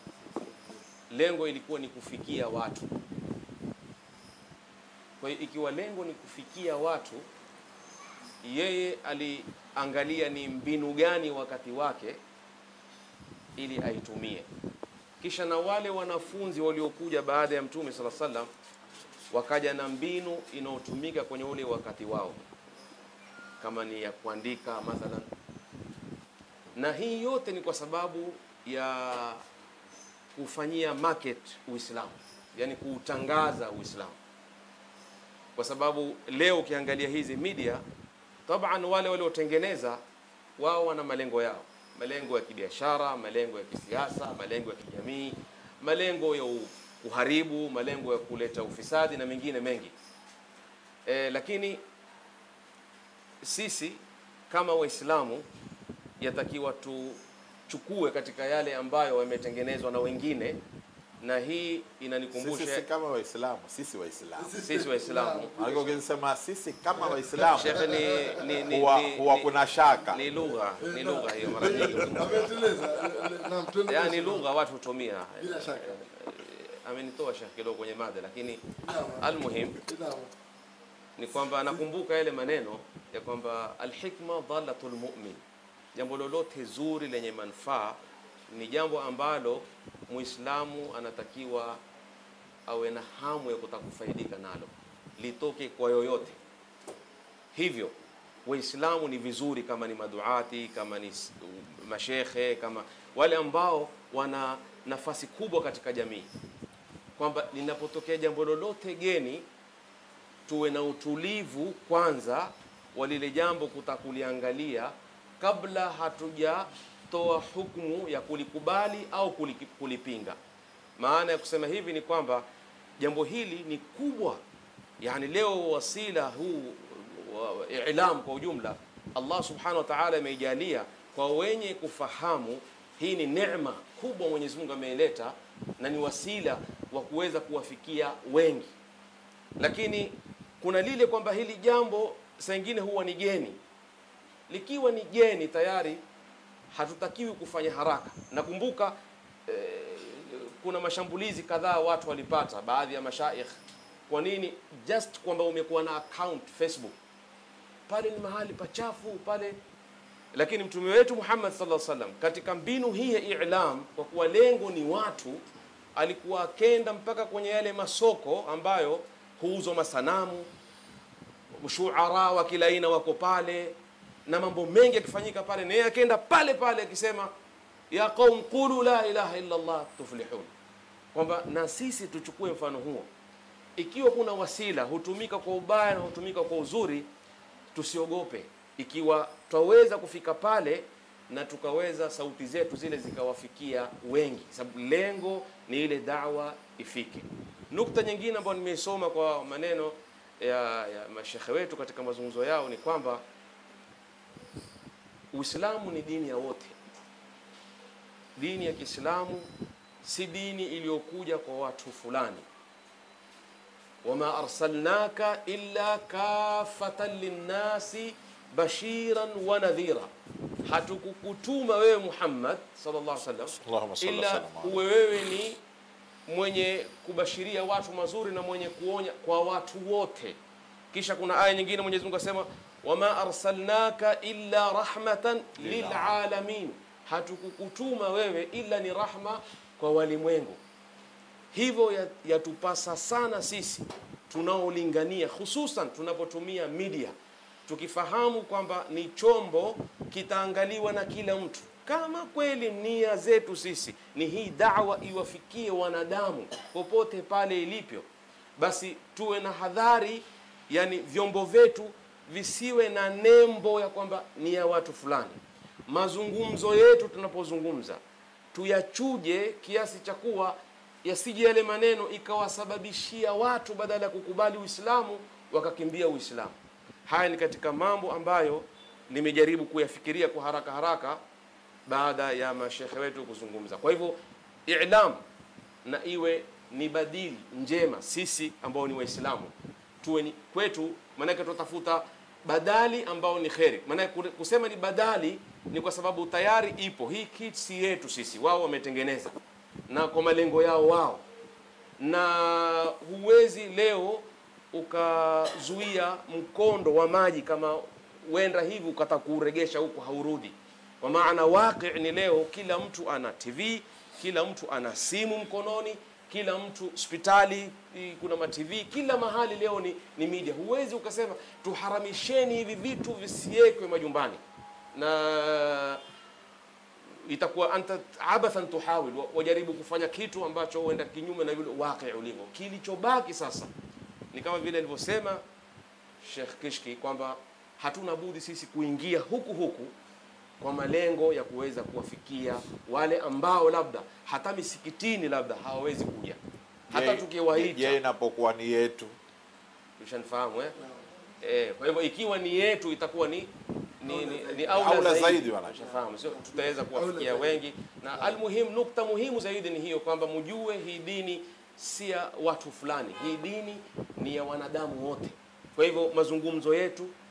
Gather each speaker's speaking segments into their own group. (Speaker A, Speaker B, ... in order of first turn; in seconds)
Speaker A: 1.1-2.9, 5.2-7.2, 8.4-12.2, 13.6-14.5, 15.2-18.5, 19.3-22.5, 23.6-25.3, 26.7-29.4, 30.3-34.2, 35.5-37.8, 38.5-40.0, 40.6-49.9, 51.0-51.8, 53.4-55.4, 56.2-60.6, 61.2-62.8, 64.6-65.5, 67.5-72.9, 73.9-79.8, 81.2-85.4, 85.9-88.0, 88.5-91.8, 92.7-96.4, 97.5-97.9, 98.5-106.3, 107.2-109.4, 110.5-120.4, 121.0-122.4, 123.0-124.4, 125.0-138.7, 139.6-143.6, 144.5-146.0, 146.7-148.9, 149.5-153.5, 154.1-156.9, 157.9-159.6, 160.3-165.4, 165.9-170.5, 171.6-173.8, 174.3-177.3, 177.9-180.5, 181.1-183.1, 183.8-187.1, 187.7-203.2, 205.3-206.8, 208.3-209.4, 210.0-212.4, 214.0-220.1, 220.6-225.6, 226.3-230.4, 230.9-240.6, 241.5-247.1, 247.7-268.0, 268.5-276.5, 277.1-281.2, 281.9-285.2, 285.8-299.3, 299.9-301.2, 302.0-324.4, 324.9-326.0, 327.2-333.7, 334.3-335.4, 336.2-339.9, 340.6-346.4, 346.9-348.0, 350.0-350.7, 351.4-367.1
Speaker B: 62.4-64.5, 65.6-67.9, 68.5-70.2, 71.8-72.3, 223.6-224.8, 235.6-236.2, 346.9-349.1, 354.7-355.9
Speaker C: 64.4-65.9, 66.9-68.7, 70.8-74.5, 75.4-76.1, 78.8-80.3, 354.0-354.8, 356.3-357.6, 358.1-358.4